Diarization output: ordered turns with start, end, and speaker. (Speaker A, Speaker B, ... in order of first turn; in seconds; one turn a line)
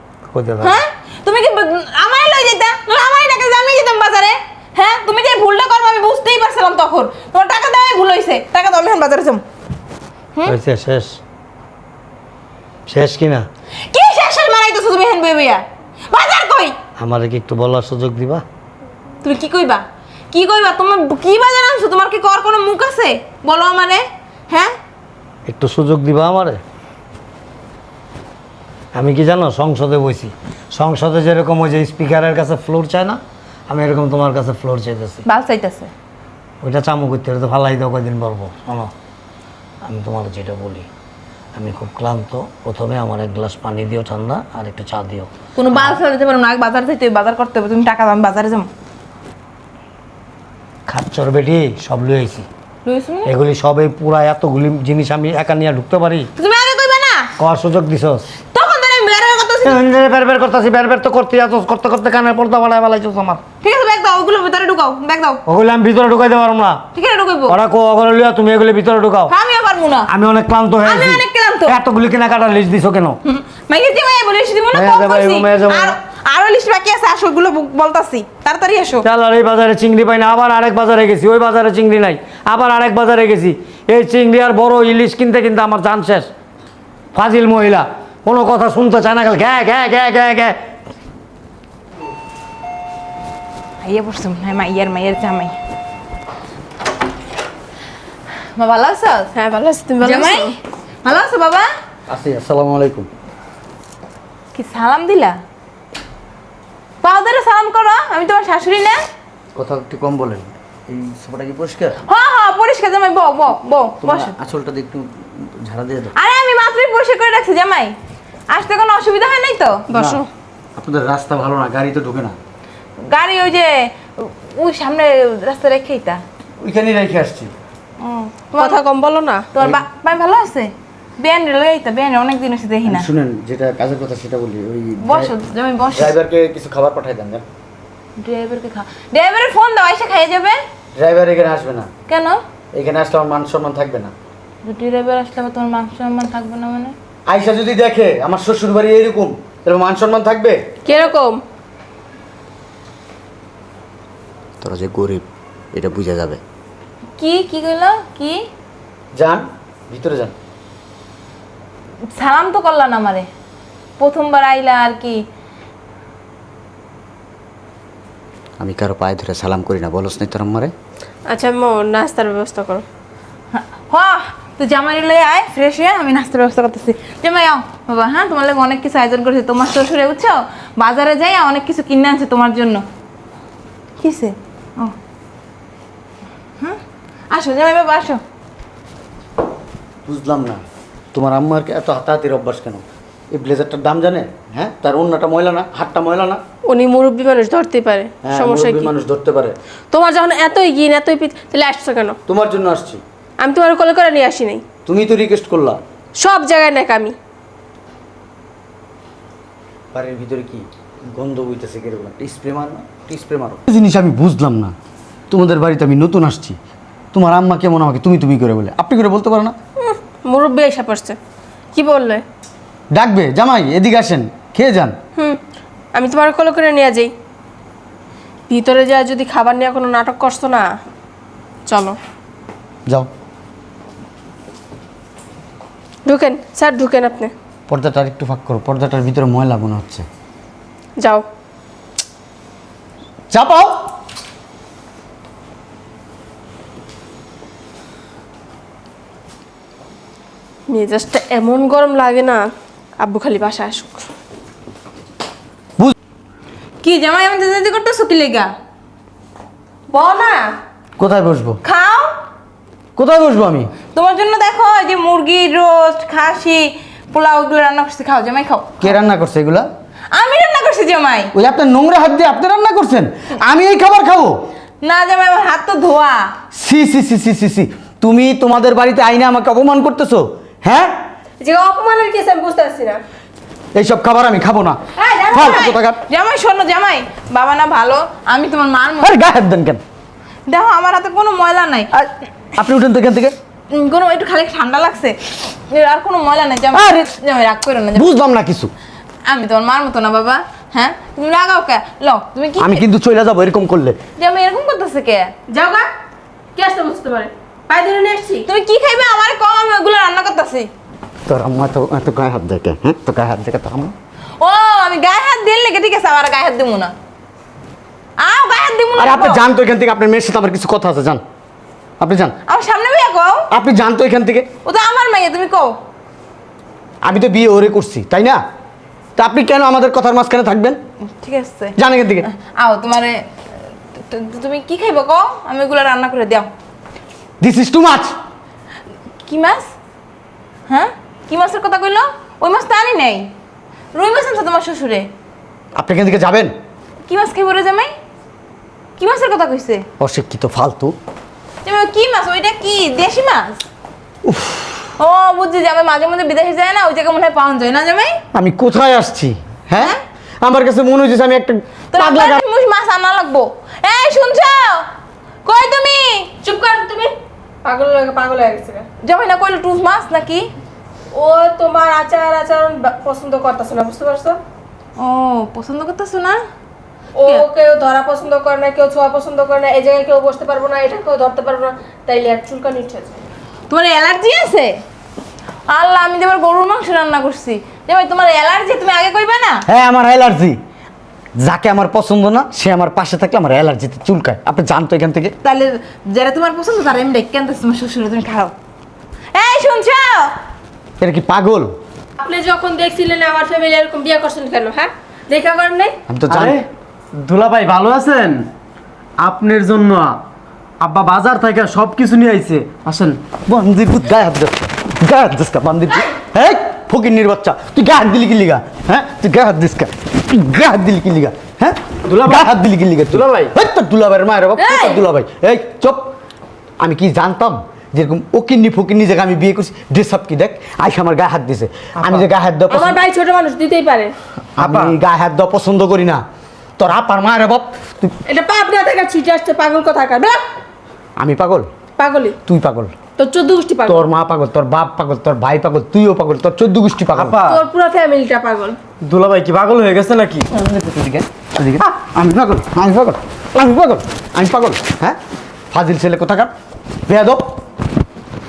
Speaker A: 0.3-0.8
Speaker B: 0.6-9.4
Speaker A: 10.4-11.2
Speaker A: 12.9-13.5
Speaker B: 13.9-16.8
Speaker A: 17.0-18.4
Speaker B: 19.2-24.7
Speaker A: 25.5-26.6
Speaker A: 28.9-35.2
Speaker B: 35.3-35.9
Speaker A: 36.6-38.9
Speaker A: 39.8-40.9
Speaker A: 41.6-46.0
Speaker B: 45.6-48.7
Speaker A: 50.9-52.5
Speaker B: 52.9-53.3
Speaker A: 53.2-56.3
Speaker B: 56.4-57.3
Speaker A: 57.4-58.3
Speaker B: 58.5-59.8
Speaker A: 59.6-63.4
Speaker B: 63.6-65.4
Speaker A: 65.5-66.8
Speaker B: 66.9-67.6
Speaker A: 67.5-69.3
Speaker B: 69.3-70.1
Speaker A: 70.1-73.2
Speaker B: 70.8-71.8
Speaker B: 73.2-79.1
Speaker A: 74.7-76.0
Speaker A: 79.0-86.3
Speaker A: 87.1-90.6
Speaker B: 93.8-95.6
Speaker B: 98.5-99.3
Speaker C: 99.3-100.5
Speaker B: 100.0-101.7
Speaker D: 102.1-103.1
Speaker B: 104.5-105.4
Speaker B: 107.0-109.0
Speaker D: 109.5-112.0
Speaker B: 112.0-114.3
Speaker D: 114.0-116.1
Speaker B: 116.2-118.0
Speaker B: 118.5-119.8
Speaker C: 119.9-120.3
Speaker D: 119.9-120.2
Speaker D: 120.8-122.4
Speaker B: 123.0-126.2
Speaker D: 126.6-127.5
Speaker B: 128.0-128.8
Speaker C: 128.6-129.5
Speaker B: 129.5-133.1
Speaker D: 129.6-129.8
Speaker D: 132.8-135.3
Speaker B: 135.0-136.2
Speaker D: 135.9-137.4
Speaker B: 138.2-140.6
Speaker D: 141.0-141.9
Speaker B: 142.1-142.4
Speaker D: 142.7-144.1
Speaker B: 144.6-146.9
Speaker D: 147.3-150.7
Speaker C: 150.8-151.4
Speaker D: 154.6-156.4
Speaker B: 157.2-158.4
Speaker D: 159.2-160.3
Speaker B: 162.1-163.3
Speaker B: 164.0-165.2
Speaker D: 168.6-170.7
Speaker C: 171.3-172.8
Speaker B: 173.5-182.8
Speaker B: 184.0-184.9
Speaker B: 187.3-188.2
Speaker D: 190.1-190.6
Speaker D: 191.1-196.4
Speaker C: 196.7-198.9
Speaker D: 198.2-199.6
Speaker C: 199.9-202.2
Speaker D: 202.3-203.0
Speaker C: 203.4-204.6
Speaker D: 204.9-205.8
Speaker C: 206.2-207.2
Speaker D: 209.9-214.7
Speaker D: 215.3-216.6
Speaker D: 217.1-219.6
Speaker C: 219.8-221.2
Speaker C: 221.7-222.2
Speaker D: 222.9-224.9
Speaker C: 225.9-227.1
Speaker C: 228.5-230.7
Speaker C: 231.7-232.0
Speaker C: 236.1-237.3
Speaker D: 237.7-240.1
Speaker C: 241.0-241.2
Speaker D: 243.3-243.8
Speaker C: 250.7-254.0
Speaker B: 256.8-258.5
Speaker C: 259.9-260.6
Speaker D: 261.0-261.6
Speaker B: 261.6-262.1
Speaker D: 263.0-263.7
Speaker B: 263.9-268.9
Speaker D: 268.8-269.7
Speaker B: 270.1-271.3
Speaker D: 271.4-274.4
Speaker B: 274.8-276.3
Speaker D: 276.6-281.0
Speaker C: 281.4-283.0
Speaker D: 283.8-284.8
Speaker C: 285.0-285.8
Speaker D: 285.3-286.0
Speaker B: 285.3-289.2
Speaker D: 289.0-289.8
Speaker B: 290.5-291.9
Speaker D: 291.9-293.3
Speaker B: 293.7-298.1
Speaker D: 296.7-297.1
Speaker D: 297.9-298.7
Speaker B: 299.3-302.8
Speaker D: 302.6-304.0
Speaker B: 304.2-305.3
Speaker C: 305.5-305.9
Speaker C: 306.6-308.4
Speaker B: 308.4-310.7
Speaker D: 311.3-313.9
Speaker B: 314.4-316.9
Speaker B: 318.2-319.4
Speaker D: 319.0-321.2
Speaker D: 322.0-322.4
Speaker B: 322.5-323.5
Speaker D: 323.5-324.5
Speaker B: 324.6-325.7
Speaker D: 327.0-328.4
Speaker D: 329.2-330.8
Speaker B: 331.1-333.2
Speaker D: 331.8-332.3
Speaker B: 334.0-336.5
Speaker D: 337.4-338.2
Speaker B: 339.2-339.7
Speaker B: 340.7-343.3
Speaker B: 343.9-345.1
Speaker D: 345.8-346.5
Speaker B: 347.1-347.9
Speaker B: 349.0-349.9
Speaker D: 350.0-350.9
Speaker B: 351.6-353.6
Speaker D: 354.2-354.8
Speaker B: 355.0-358.2
Speaker D: 358.3-362.4
Speaker B: 359.7-360.0
Speaker B: 361.9-364.9
Speaker B: 365.4-366.3
Speaker C: 366.4-367.1
Speaker C: 367.6-368.9
Speaker B: 369.0-370.5
Speaker C: 371.1-374.4
Speaker B: 375.0-376.4
Speaker C: 377.2-383.1
Speaker B: 383.7-384.8
Speaker B: 385.7-389.6
Speaker D: 389.7-390.6
Speaker D: 391.4-395.3
Speaker B: 395.4-398.5
Speaker B: 399.3-400.4
Speaker D: 401.0-401.7
Speaker C: 402.2-405.9
Speaker D: 406.1-406.6
Speaker E: 406.3-408.5
Speaker E: 409.2-410.2
Speaker E: 410.8-413.2
Speaker D: 413.5-426.1
Speaker E: 422.1-423.5
Speaker C: 424.6-425.0
Speaker D: 426.8-433.0
Speaker E: 432.0-432.3
Speaker C: 432.7-434.1
Speaker E: 434.6-435.0
Speaker D: 434.6-436.2
Speaker D: 436.8-438.1
Speaker C: 438.3-440.4
Speaker D: 441.2-441.7
Speaker C: 442.0-442.4
Speaker D: 442.5-442.9
Speaker C: 443.2-444.1
Speaker D: 443.9-447.4
Speaker E: 447.1-447.6
Speaker C: 447.4-448.8
Speaker E: 449.0-450.5
Speaker D: 450.5-455.2
Speaker D: 455.7-456.5
Speaker D: 457.1-457.4